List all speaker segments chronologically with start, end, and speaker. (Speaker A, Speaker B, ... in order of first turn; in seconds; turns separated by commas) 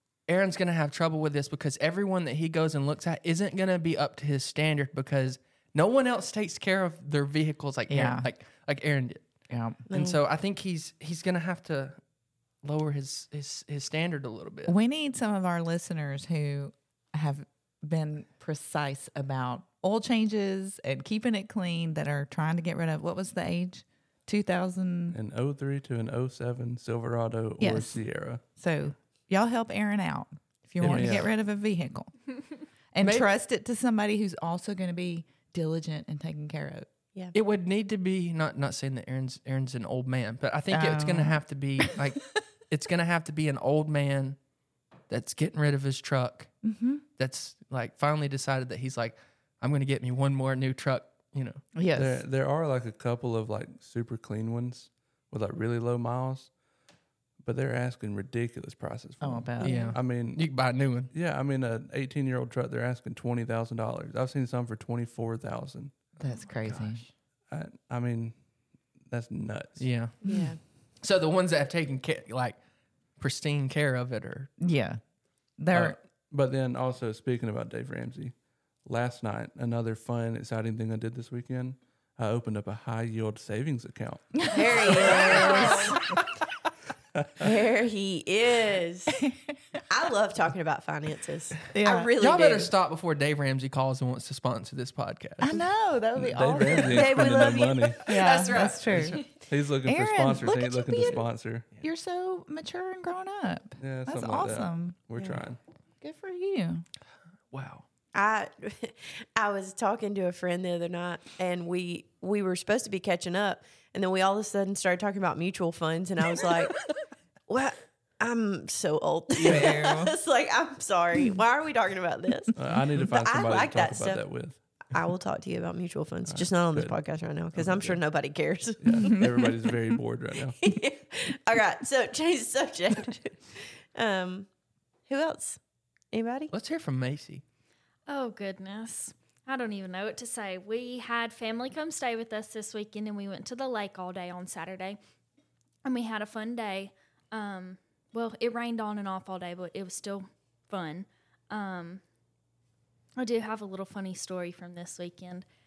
Speaker A: 0.3-9.2, Speaker B: 7.9-8.3, Speaker B: 9.5-9.8, Speaker C: 9.9-10.2, Speaker A: 9.9-12.0, Speaker A: 12.6-14.7, Speaker B: 14.7-25.2, Speaker D: 25.1-28.4, Speaker B: 27.6-32.1, Speaker D: 30.8-31.3, Speaker A: 30.8-31.2, Speaker B: 32.9-36.9, Speaker A: 33.0-33.3, Speaker A: 37.3-44.4, Speaker B: 40.7-41.4, Speaker A: 45.1-46.5, Speaker B: 46.6-47.0, Speaker A: 47.2-51.6, Speaker B: 51.7-52.2, Speaker D: 51.9-56.5, Speaker D: 57.4-60.5, Speaker B: 59.2-60.0, Speaker A: 59.6-61.1, Speaker D: 61.1-66.0, Speaker B: 66.2-67.0, Speaker A: 66.6-67.1, Speaker D: 67.5-68.3, Speaker D: 69.1-69.9, Speaker A: 69.8-70.3, Speaker C: 70.2-70.6, Speaker B: 70.3-70.5, Speaker A: 71.0-72.6, Speaker A: 73.2-74.5, Speaker B: 74.6-75.0, Speaker B: 75.6-76.0, Speaker D: 75.7-85.2, Speaker B: 84.4-86.0, Speaker C: 84.5-86.0, Speaker D: 87.2-87.5, Speaker C: 87.4-89.2, Speaker C: 89.9-92.7, Speaker B: 91.7-92.1, Speaker A: 92.2-95.6, Speaker B: 95.4-97.5, Speaker D: 96.2-98.2, Speaker C: 96.8-98.5, Speaker B: 98.0-99.3, Speaker A: 98.0-99.3, Speaker D: 99.4-101.7, Speaker B: 99.8-101.2, Speaker B: 101.8-105.0, Speaker D: 103.8-105.6, Speaker B: 106.0-106.8, Speaker A: 107.5-107.8, Speaker C: 108.1-116.8, Speaker C: 117.5-124.2, Speaker A: 119.4-119.7, Speaker B: 119.4-120.1, Speaker D: 122.5-124.6, Speaker C: 124.9-129.3, Speaker D: 126.3-127.0, Speaker D: 127.5-128.0, Speaker D: 128.8-130.6, Speaker B: 129.0-129.3, Speaker C: 130.6-134.5, Speaker C: 135.1-135.6, Speaker C: 136.1-136.5, Speaker A: 136.5-137.4, Speaker E: 138.1-145.0, Speaker E: 145.8-152.0, Speaker E: 153.2-155.4